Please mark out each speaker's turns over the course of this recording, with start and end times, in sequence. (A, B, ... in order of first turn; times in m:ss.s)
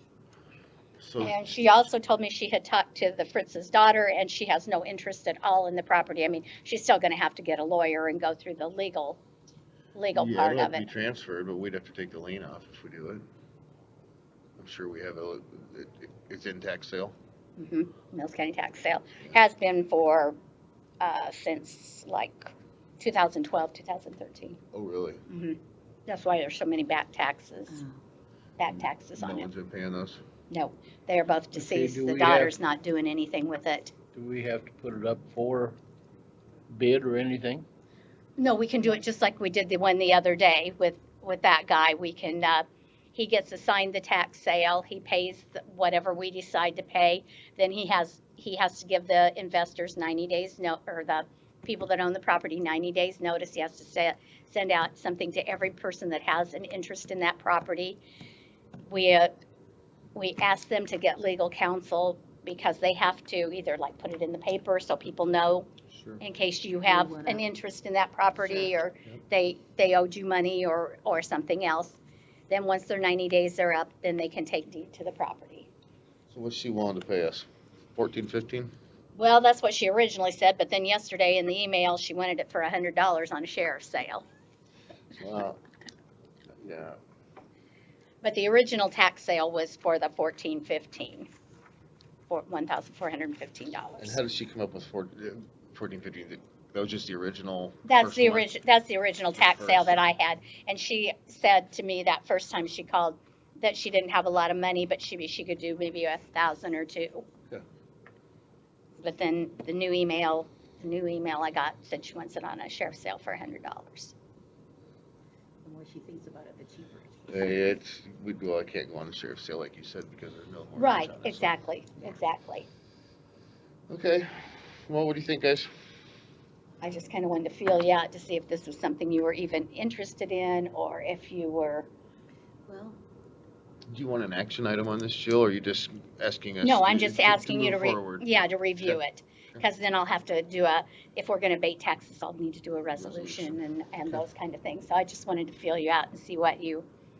0:01.0-0:01.5 A
0:01.2-0:09.2 B
0:09.9-0:10.9 B
0:10.1-0:13.2 A
0:14.6-0:17.1 A
0:17.6-0:20.4 B
0:21.0-0:24.6 B
0:24.7-0:25.2 A
0:25.3-0:27.8 B
0:27.7-0:28.0 C
0:28.6-0:29.5 B
0:29.2-0:30.2 A
0:30.5-0:33.9 B
0:31.5-0:32.5 D
0:34.1-0:35.8 D
0:36.7-0:37.6 D
0:38.4-0:58.0 B
0:58.8-0:59.3 B
1:00.1-1:05.7 B
1:05.9-1:06.2 A
1:06.2-1:15.7 B
1:06.9-1:07.4 C
1:08.4-1:08.7 A
1:16.3-1:18.7 A
1:19.1-1:24.3 B
1:25.2-1:25.6 A
1:26.6-1:27.0 A
1:28.2-1:31.3 B
1:32.3-1:34.2 B
1:34.0-1:38.5 A
1:37.8-1:47.2 B
1:39.4-1:40.0 A
1:49.0-1:54.1 B
1:55.6-1:57.7 C
1:57.3-2:01.5 A
2:00.8-2:02.6 B
2:03.9-2:05.7 A
2:06.8-2:11.9 B
2:12.7-2:13.0 C
2:13.9-2:18.2 A
2:16.6-2:26.8 B
2:23.0-2:23.6 A